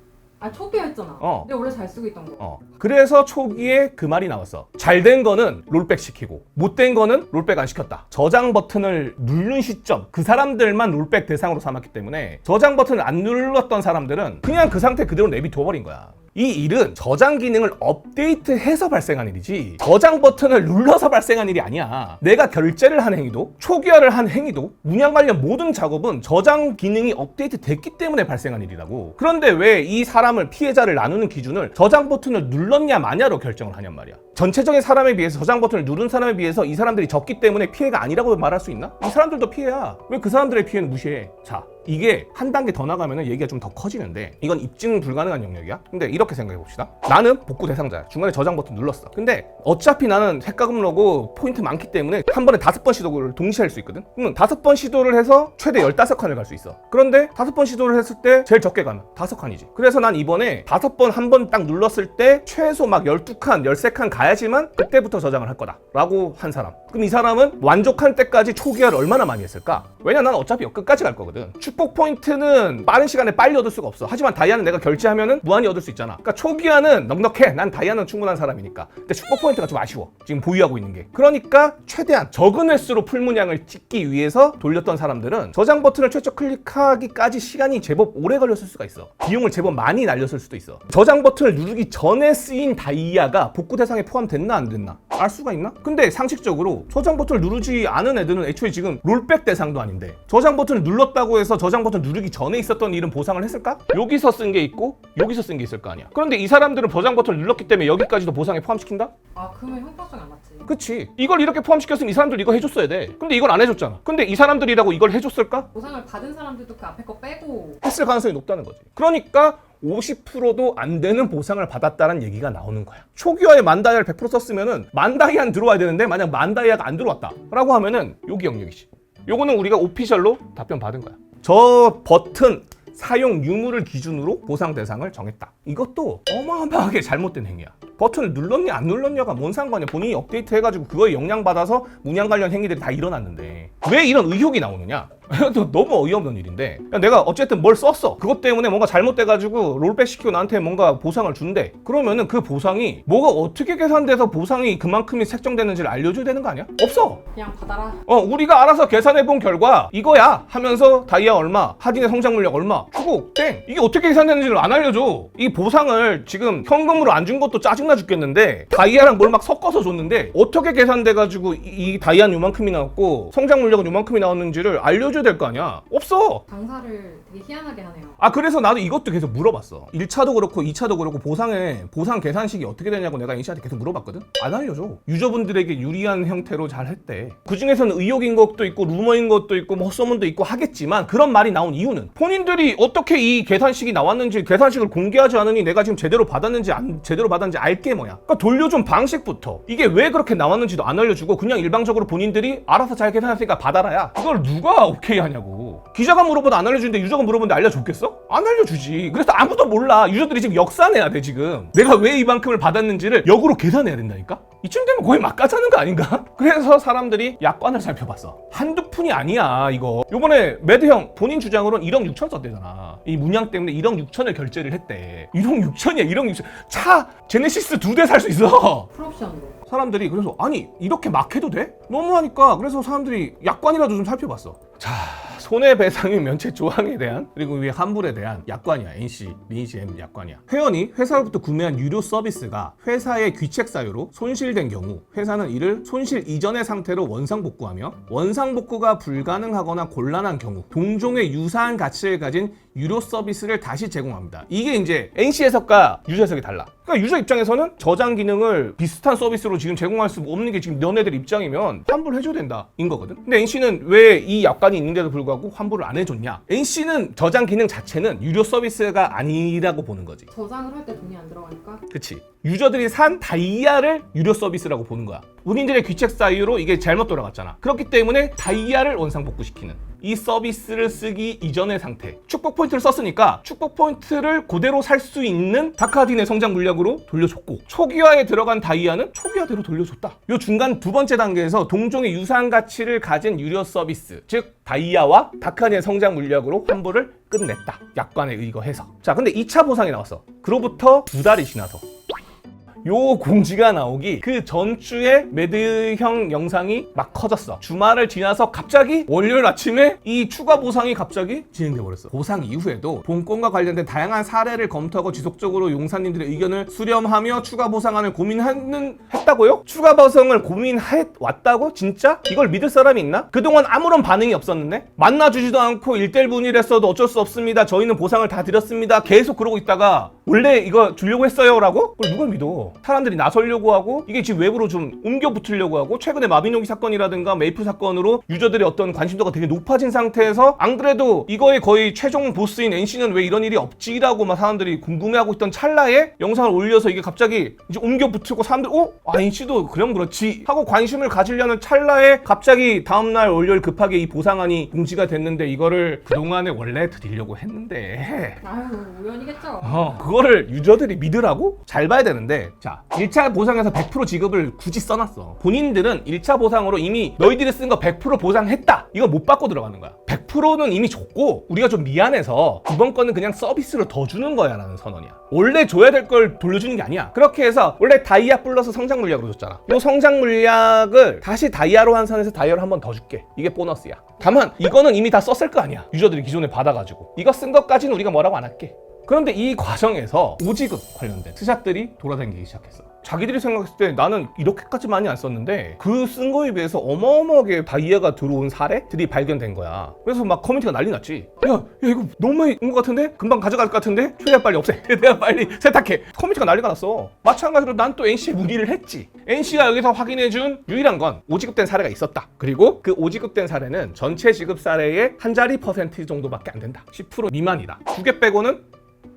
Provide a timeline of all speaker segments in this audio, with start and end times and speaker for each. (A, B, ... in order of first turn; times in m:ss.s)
0:00.4-0:02.4 A
0:01.2-0:01.5 B
0:02.4-1:49.1 B
1:49.3-1:50.7 A
1:50.7-1:55.7 B
1:55.7-1:57.8 A
1:57.8-2:37.2 B
2:37.3-2:38.0 A
2:38.1-2:56.4 B
2:56.5-2:58.2 A
2:58.2-3:48.9 B
3:48.9-3:49.6 A
3:49.7-4:30.3 B
4:30.3-4:31.8 A
4:31.9-5:01.8 B
5:02.8-5:58.4 B
5:58.4-5:59.8 A
5:59.6-6:58.6 B